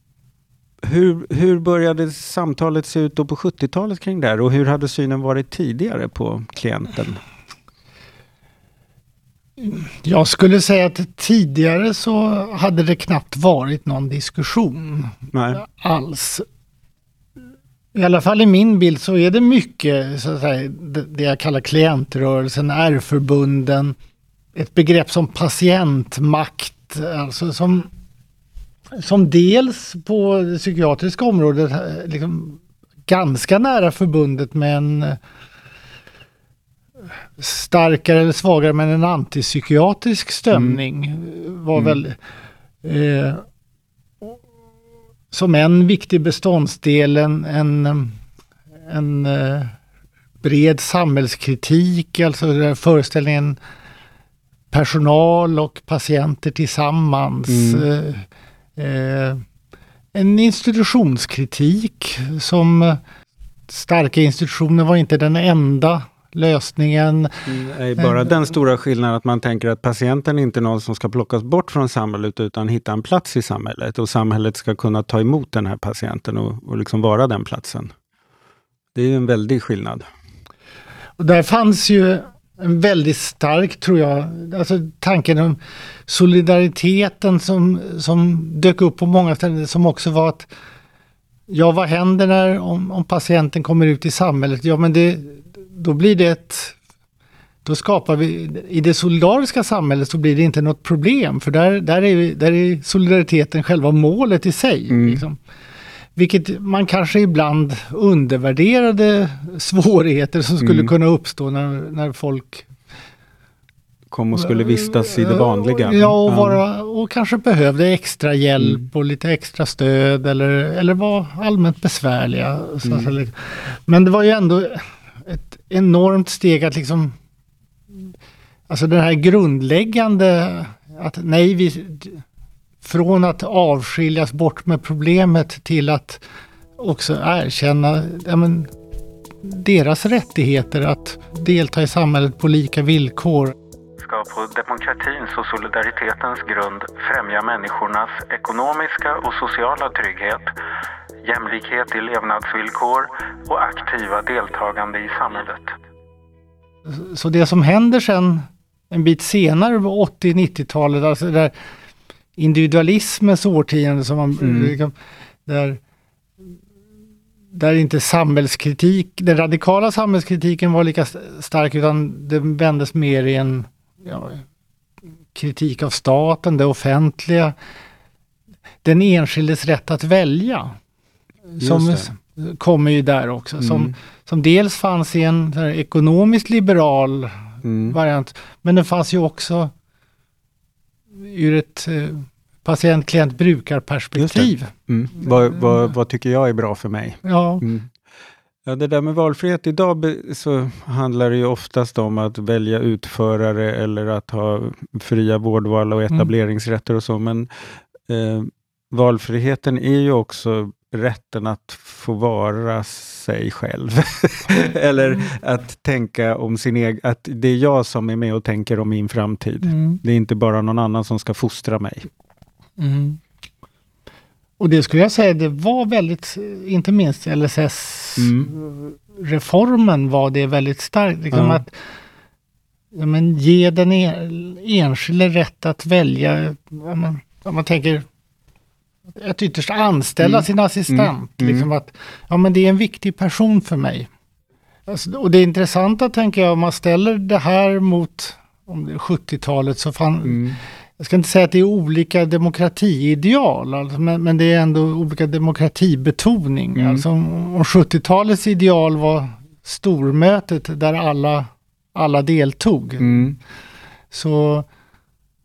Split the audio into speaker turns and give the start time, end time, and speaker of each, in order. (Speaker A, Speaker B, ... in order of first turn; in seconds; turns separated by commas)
Speaker A: 0.8-7.2, Speaker B: 9.6-16.5, Speaker A: 15.3-15.6, Speaker B: 17.9-24.0, Speaker B: 24.6-27.9, Speaker B: 28.9-35.2, Speaker B: 37.4-42.2, Speaker A: 40.5-40.8, Speaker B: 42.8-43.4, Speaker B: 45.3-48.2, Speaker B: 48.8-49.8, Speaker B: 50.4-53.6, Speaker B: 54.7-59.4, Speaker A: 57.5-57.9, Speaker B: 60.1-63.0, Speaker B: 63.7-67.5, Speaker A: 67.5-77.9, Speaker A: 79.0-80.1, Speaker B: 81.2-90.5, Speaker B: 91.5-96.8, Speaker B: 97.7-105.4, Speaker A: 104.9-105.2, Speaker B: 106.2-112.7, Speaker A: 110.6-110.9, Speaker A: 114.1-116.6, Speaker B: 114.3-127.2, Speaker A: 122.8-123.1, Speaker B: 128.7-132.2, Speaker B: 132.8-136.2, Speaker B: 136.8-138.7, Speaker B: 139.4-143.6, Speaker C: 144.0-150.5, Speaker C: 151.2-155.8, Speaker B: 156.9-161.5, Speaker B: 162.4-164.9, Speaker A: 164.4-164.8, Speaker B: 165.5-165.8, Speaker B: 167.5-174.4, Speaker B: 175.3-177.6, Speaker B: 178.8-180.8, Speaker B: 181.6-189.7, Speaker A: 181.6-182.1, Speaker A: 183.6-183.9, Speaker A: 187.6-188.0, Speaker B: 191.1-194.7, Speaker A: 194.2-197.9, Speaker B: 195.2-195.8, Speaker B: 197.2-197.7, Speaker A: 198.7-207.5, Speaker A: 208.1-222.1, Speaker B: 219.7-220.0, Speaker B: 222.8-223.2, Speaker B: 224.6-231.8, Speaker A: 228.2-228.5, Speaker A: 231.3-231.6, Speaker B: 232.9-238.1, Speaker B: 239.2-244.1, Speaker A: 240.2-241.7, Speaker B: 244.9-250.5, Speaker A: 250.2-250.6, Speaker B: 251.0-263.3, Speaker A: 256.8-257.1, Speaker A: 263.0-263.4, Speaker B: 264.1-264.7